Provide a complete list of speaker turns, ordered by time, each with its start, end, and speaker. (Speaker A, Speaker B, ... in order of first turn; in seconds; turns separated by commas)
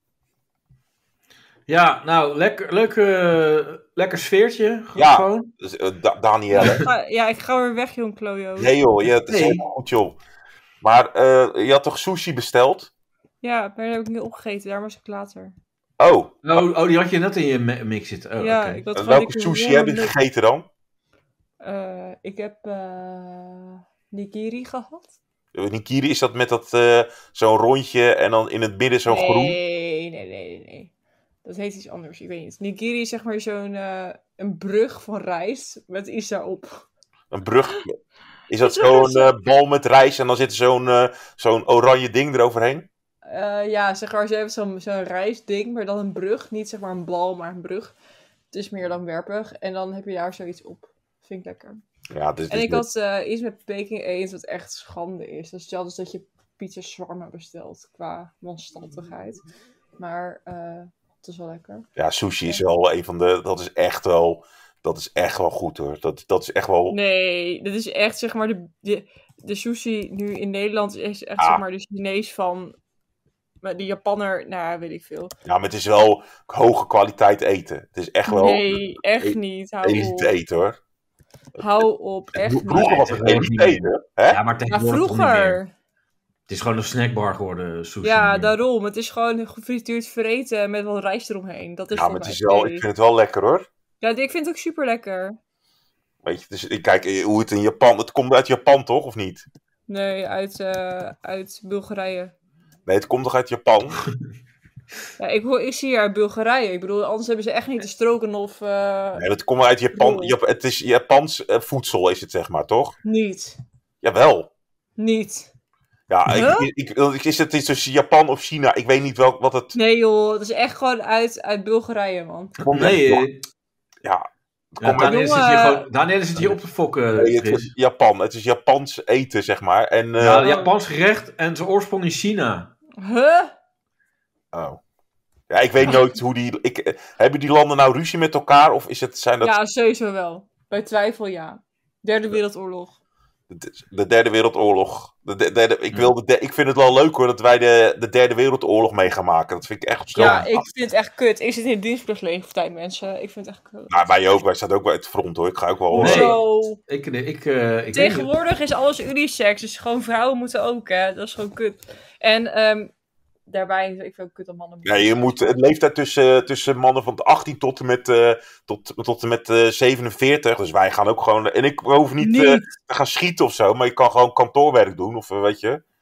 Speaker A: 1.7-5.5, Speaker B: 4.9-6.8, Speaker A: 6.6-6.8, Speaker C: 6.6-8.7, Speaker B: 8.6-10.2, Speaker A: 9.3-9.6, Speaker B: 10.8-12.9, Speaker C: 13.4-15.5, Speaker B: 16.0-16.3, Speaker A: 16.4-18.8, Speaker C: 18.4-20.1, Speaker B: 18.9-20.7, Speaker C: 21.6-25.1, Speaker B: 25.5-29.6, Speaker C: 29.1-30.9, Speaker C: 31.4-36.9, Speaker B: 37.3-38.0, Speaker B: 38.5-42.9, Speaker C: 38.6-39.3, Speaker C: 43.2-47.9, Speaker C: 48.5-51.8, Speaker B: 52.1-52.8, Speaker C: 52.5-59.4, Speaker C: 60.0-61.9, Speaker B: 62.0-67.0, Speaker C: 66.9-72.8, Speaker C: 73.6-75.3, Speaker B: 75.5-80.8, Speaker C: 78.3-80.3, Speaker C: 81.6-83.1, Speaker B: 82.3-84.4, Speaker A: 82.7-85.6, Speaker C: 84.7-85.7, Speaker A: 86.5-88.5, Speaker C: 88.0-92.8, Speaker B: 91.9-93.7, Speaker C: 94.0-95.4, Speaker B: 96.2-99.5, Speaker C: 99.9-102.3, Speaker B: 102.8-104.0, Speaker C: 105.2-109.2, Speaker B: 109.1-112.9, Speaker C: 109.9-110.3, Speaker C: 113.0-113.6, Speaker B: 114.0-114.5, Speaker C: 115.0-115.5, Speaker B: 116.1-119.7, Speaker C: 116.2-116.7, Speaker C: 119.7-122.5, Speaker A: 122.6-123.4, Speaker B: 122.7-123.3, Speaker B: 124.0-125.1, Speaker A: 124.8-127.7, Speaker C: 125.0-125.8, Speaker B: 127.2-130.5, Speaker A: 130.2-132.7, Speaker C: 130.4-130.7, Speaker C: 133.0-133.5, Speaker B: 134.5-134.8, Speaker B: 135.5-139.5, Speaker C: 139.4-142.9, Speaker B: 143.5-150.7, Speaker C: 150.1-153.9, Speaker A: 150.2-150.5, Speaker B: 153.9-156.3, Speaker A: 155.9-158.3, Speaker C: 156.0-156.8, Speaker C: 157.9-162.9, Speaker C: 163.5-165.6, Speaker B: 164.8-175.8, Speaker C: 172.2-172.7